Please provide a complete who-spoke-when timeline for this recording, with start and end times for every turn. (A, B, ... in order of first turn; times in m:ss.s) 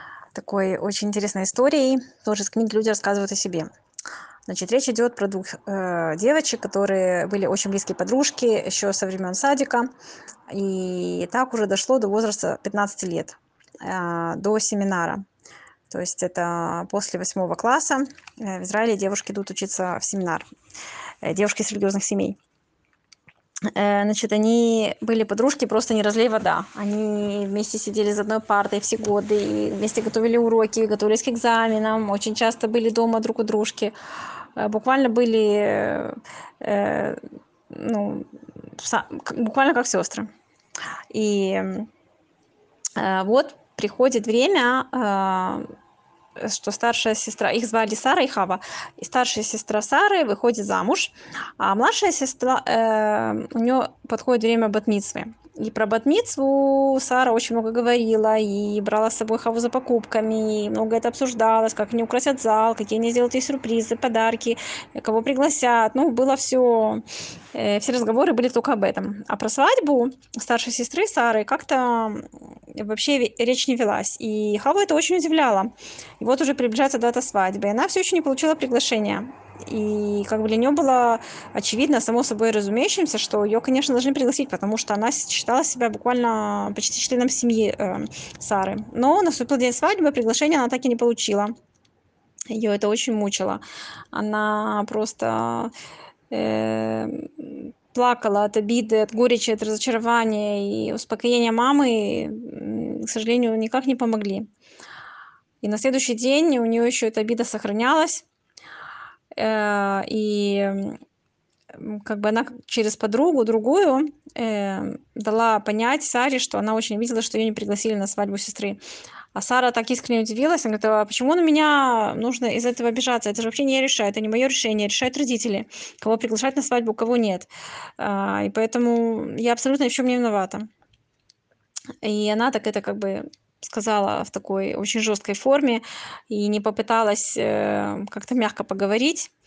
0:00.3-0:03.7 A
0:04.5-0:09.9 A
0:10.5-0:15.2 A
0:15.9-0:20.4 A
0:21.2-0:22.4 A
0:23.7-0:33.9 A
0:34.6-0:40.3 A
0:41.1-0:41.9 A
0:43.0-0:45.7 A
0:46.4-1:31.5 A
1:32.5-1:33.6 A
1:34.1-1:35.7 A
1:36.3-1:44.5 A
1:45.6-1:48.2 A
1:49.3-1:51.0 A
1:51.7-1:58.8 A
1:59.3-2:10.7 A
2:12.0-2:19.3 A